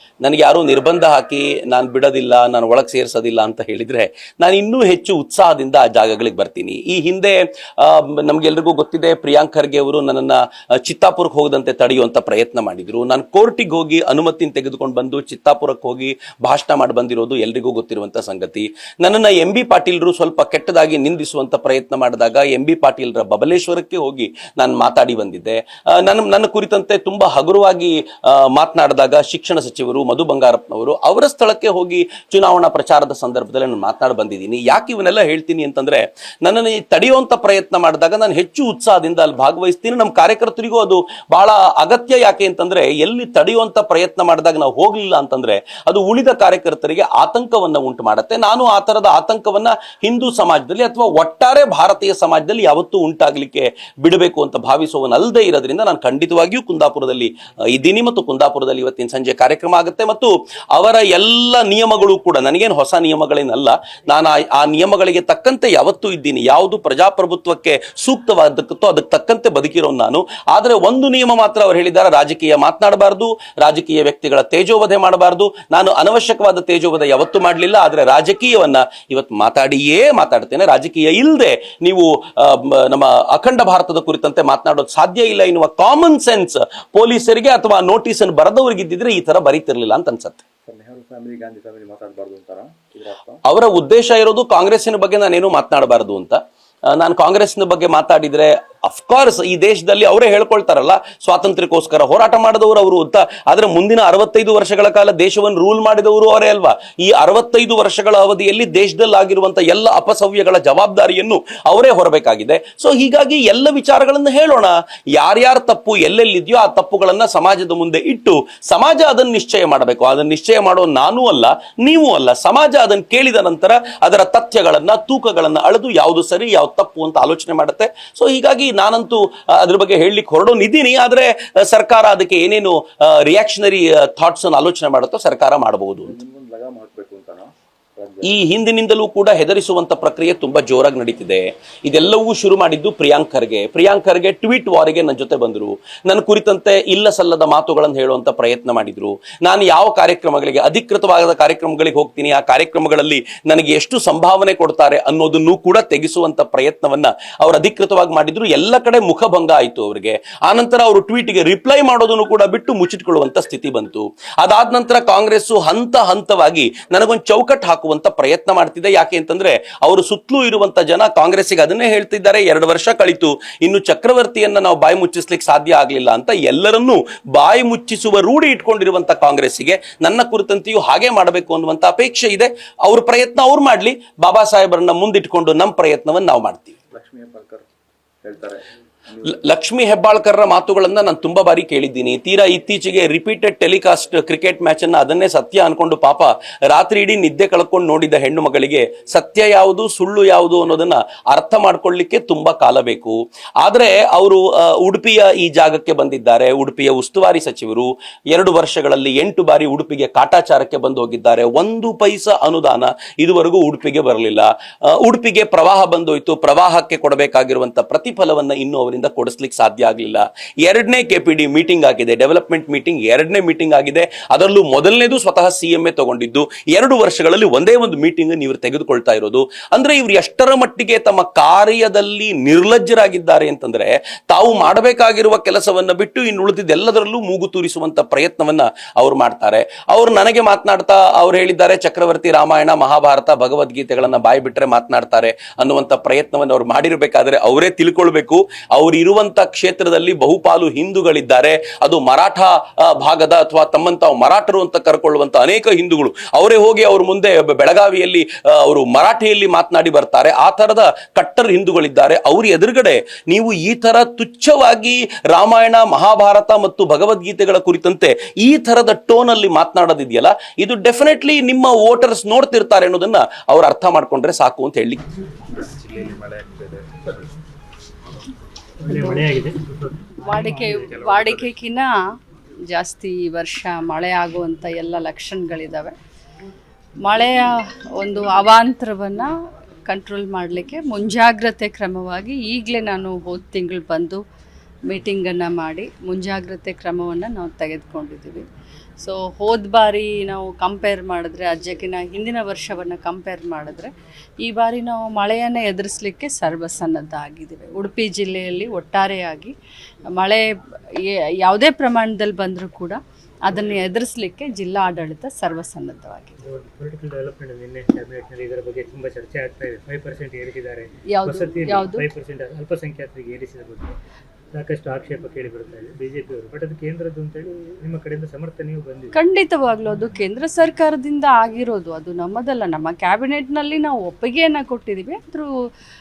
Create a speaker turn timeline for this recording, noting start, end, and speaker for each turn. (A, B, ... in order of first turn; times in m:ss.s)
0:00.2-1:30.4 A
1:30.7-1:33.4 B
1:33.4-2:16.2 A
2:16.0-2:18.4 B
2:18.2-3:06.8 A
3:06.9-3:07.7 B
3:08.2-3:09.4 B
3:09.2-4:35.0 A
4:35.5-4:37.3 B
4:38.8-4:41.0 C
4:38.9-4:39.3 D
4:40.2-4:41.9 D
4:40.9-4:41.5 B
4:42.7-4:45.9 D
4:47.0-4:49.3 D
4:49.9-4:54.2 D
4:54.9-4:58.4 D
4:59.0-5:03.9 D
5:04.4-5:09.5 D
5:10.1-5:10.4 D
5:11.4-5:16.3 D
5:16.4-5:23.9 C
5:21.1-5:22.0 D
5:24.5-5:29.2 C
5:29.1-5:35.5 D